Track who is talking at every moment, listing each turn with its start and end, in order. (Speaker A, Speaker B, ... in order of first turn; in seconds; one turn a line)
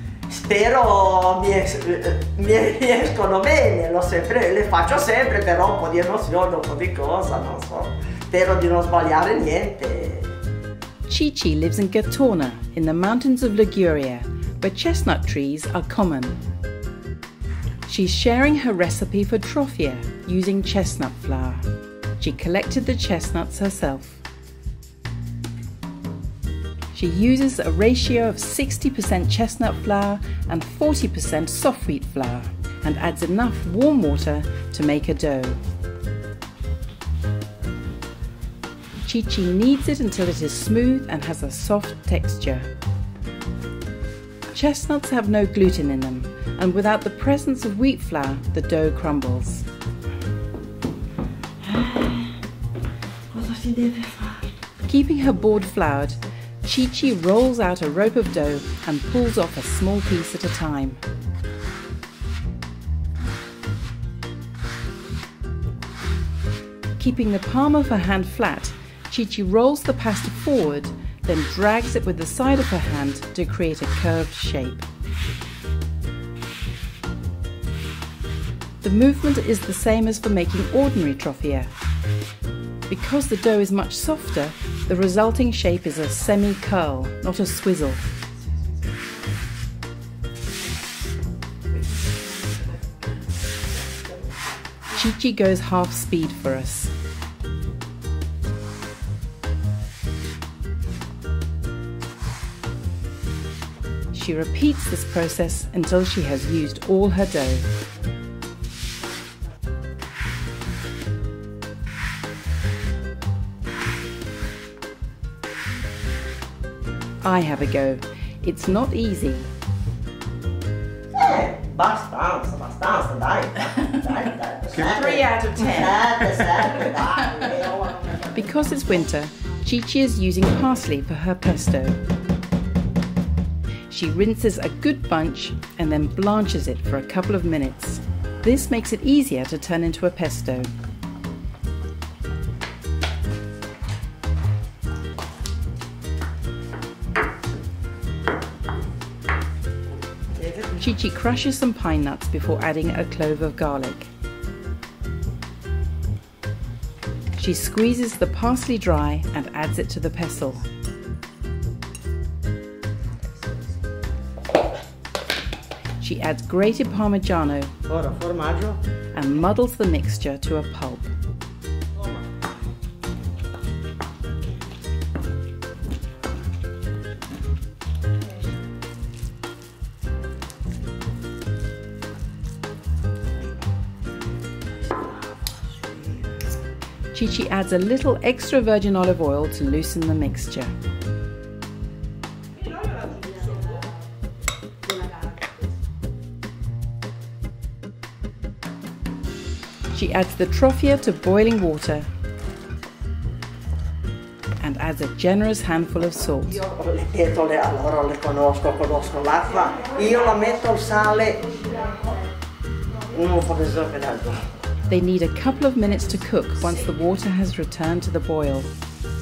Speaker A: 0.3-10.3
Speaker B: 11.1-16.4
Speaker B: 17.9-21.6
Speaker B: 22.2-24.2
Speaker B: 26.9-35.6
Speaker B: 39.0-42.7
Speaker B: 44.5-49.6
Speaker A: 51.6-52.3
Speaker A: 53.3-54.4
Speaker B: 54.9-61.0
Speaker B: 67.0-74.8
Speaker B: 78.8-81.7
Speaker B: 82.9-88.0
Speaker B: 94.9-96.9
Speaker B: 104.1-107.7
Speaker B: 117.2-119.5
Speaker A: 121.1-128.3
Speaker B: 124.8-126.3
Speaker B: 128.3-132.0
Speaker B: 133.9-140.7
Speaker A: 150.4-150.7
Speaker B: 150.8-154.1
Speaker B: 157.4-160.6
Speaker B: 166.0-167.7
Speaker A: 167.9-168.8
Speaker B: 169.1-171.1
Speaker B: 187.1-190.7
Speaker B: 199.9-202.1
Speaker B: 204.6-206.6
Speaker A: 206.6-211.5
Speaker A: 213.1-214.4
Speaker B: 214.9-218.7